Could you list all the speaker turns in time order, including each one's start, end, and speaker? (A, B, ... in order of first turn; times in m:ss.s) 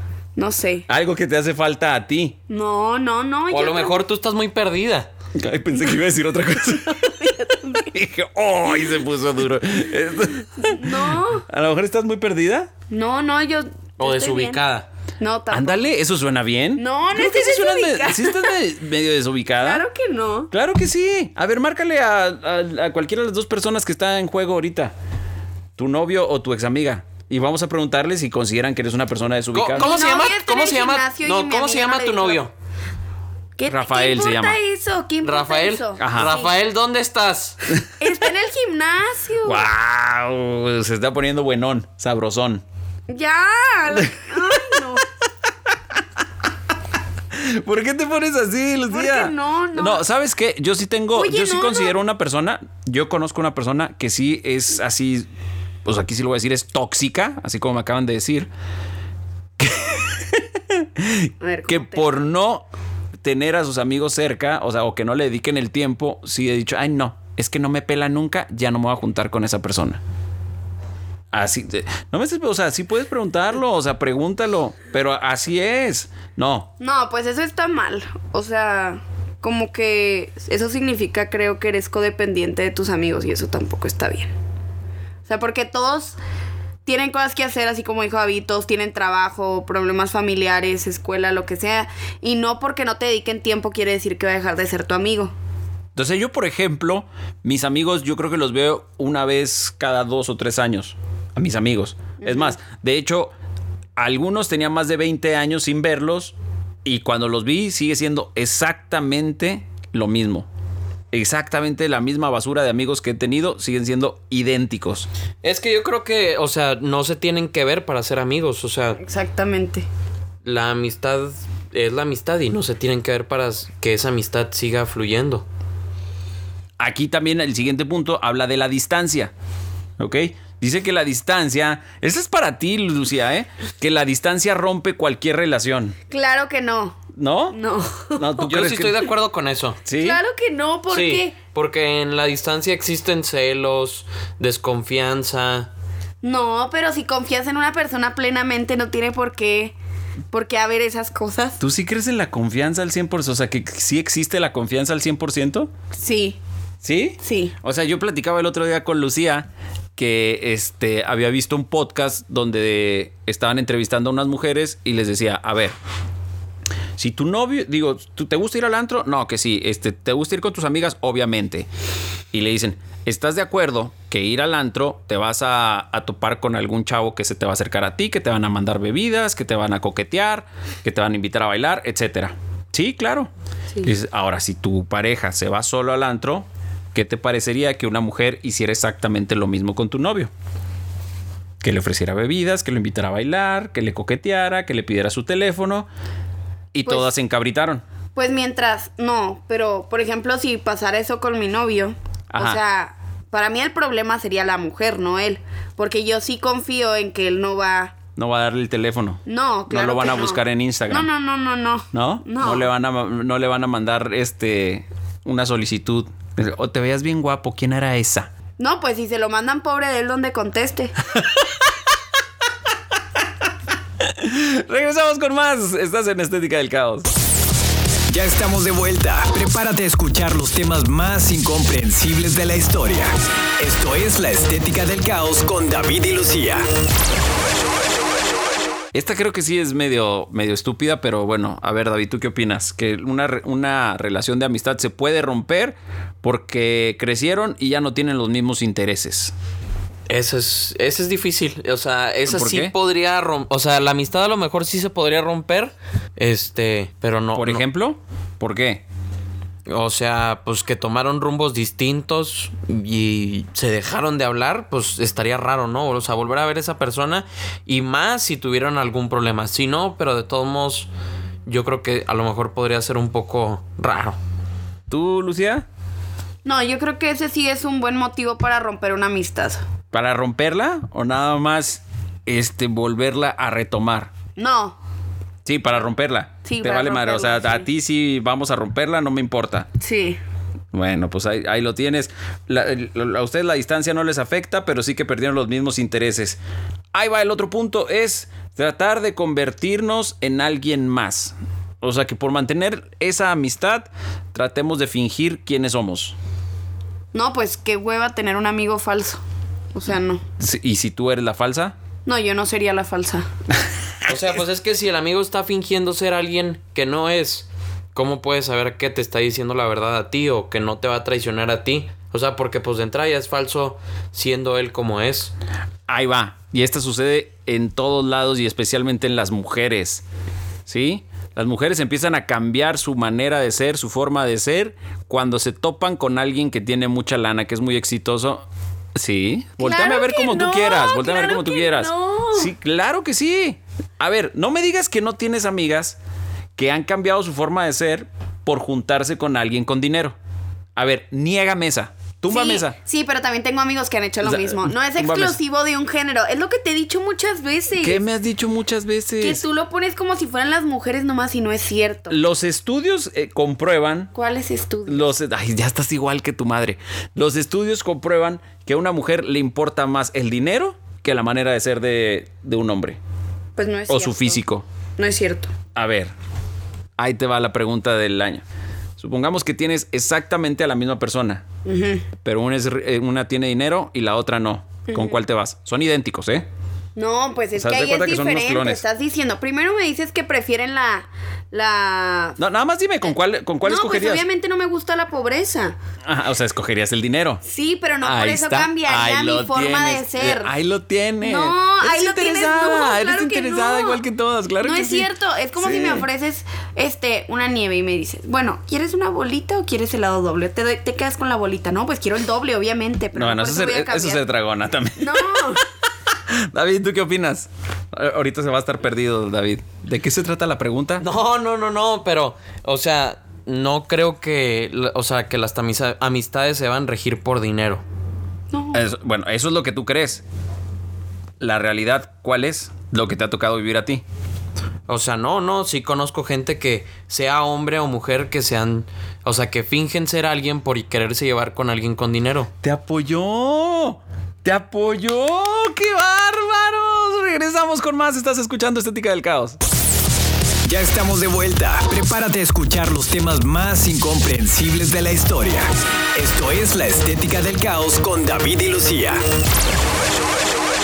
0:00.4-0:00.9 A
0:00.9-0:02.4 B
0:02.5-0:04.0 A
0:03.5-0:05.1 C
0:05.4-0:07.3 B
0:06.9-0:07.9 A
0:07.8-0:12.7 B
0:10.6-0:11.4 A
0:12.9-0:14.6 A
0:14.0-0:14.9 C
0:15.2-0:15.9 A
0:15.5-0:19.8 B
0:16.8-0:18.6 A
0:19.6-0:20.5 A
0:20.5-0:24.9 B
0:25.8-0:29.9 B
0:29.5-0:32.5 C
0:29.8-0:32.4 A
0:33.6-0:36.5 A
0:33.7-0:34.6 B
0:35.2-0:37.6 C
0:36.0-0:36.4 B
0:38.0-0:39.7 A
0:39.4-0:42.6 B
0:43.1-0:45.0 A
0:44.0-0:44.6 B
0:47.3-0:55.3 B
0:48.9-0:50.0 A
0:51.2-0:52.0 A
0:55.8-0:58.5 B
0:59.6-1:02.7 B
1:01.4-1:02.2 A
1:03.2-1:10.0 B
1:11.3-1:16.7 B
1:16.8-1:24.3 A
1:25.3-1:26.2 A
1:26.8-1:35.3 A
1:36.0-1:43.3 B
1:42.2-1:42.6 A
1:44.0-1:46.3 B
1:46.8-1:50.5 B
1:51.1-1:55.1 B
1:55.4-1:59.0 C
1:59.0-1:59.9 A
2:00.4-2:05.5 C
2:06.8-2:09.3 B
2:10.0-2:16.0 B
2:16.1-2:17.0 A
2:17.2-2:17.6 B
2:17.5-2:18.4 A
2:18.2-2:19.0 B
2:18.4-2:19.8 C
2:19.9-2:20.2 B
2:20.0-2:21.4 A
2:20.9-2:25.7 C
2:26.2-2:29.8 A
2:30.3-2:31.6 A
2:31.6-2:35.7 B
2:35.9-2:36.4 A
2:36.8-2:45.8 B
2:37.2-2:37.5 A
2:47.0-2:51.7 B
2:52.3-3:03.3 B
3:03.8-3:10.3 B
3:11.6-3:15.9 B
3:16.7-3:17.8 B
3:18.2-3:28.0 A
3:22.3-3:22.6 B
3:28.2-3:31.1 B
3:29.3-3:32.7 A
3:31.9-3:38.3 B
3:38.6-3:41.0 A
3:41.2-3:41.4 B
3:44.0-3:47.1 B
3:48.1-3:56.7 D
3:58.9-4:09.3 B
4:10.1-4:17.6 C
4:12.3-4:12.7 B
4:17.4-4:18.8 B
4:19.7-4:30.9 C
4:31.5-4:34.2 C
4:34.9-4:35.6 B
4:36.4-4:39.6 A
4:39.9-4:44.1 B
4:44.4-4:44.8 A
4:45.4-4:49.7 B
4:46.4-4:47.7 A
4:49.8-4:50.2 A
4:50.7-4:56.4 B
4:56.9-5:06.2 B
5:07.1-5:09.2 A
5:09.7-5:10.2 A
5:10.4-5:11.8 B
5:12.1-5:13.3 A
5:14.1-5:25.3 C
5:25.9-5:30.0 B
5:30.7-5:46.0 B
5:39.6-5:42.5 A
5:46.6-5:50.2 B
5:50.8-5:52.8 B
5:52.3-5:58.0 A
5:54.2-5:55.4 B
5:57.8-5:59.4 B
5:59.2-6:02.2 A
6:02.1-6:04.1 B
6:04.1-6:05.1 A
6:04.9-6:13.0 B
6:13.6-6:14.4 A
6:13.9-6:14.6 B
6:15.0-6:15.5 A
6:15.8-6:16.1 B
6:17.0-6:18.4 B
6:19.0-6:21.4 B
6:21.6-6:22.0 A
6:22.2-6:26.5 B
6:24.9-6:25.2 A
6:27.0-6:32.4 A
6:27.6-6:28.8 B
6:32.4-6:34.2 B
6:33.1-6:35.8 A
6:36.0-6:37.4 B
6:37.4-6:40.5 A
6:38.0-6:46.0 B
6:41.2-6:44.0 A
6:44.6-6:54.2 A
6:53.2-6:55.6 B
6:55.0-6:55.6 A
6:56.3-7:01.0 B
7:01.0-7:07.8 C
7:08.5-7:08.8 A
7:08.7-7:10.2 B
7:11.4-7:14.0 B
7:14.9-7:22.5 C
7:22.6-7:29.6 B
7:30.6-7:39.2 D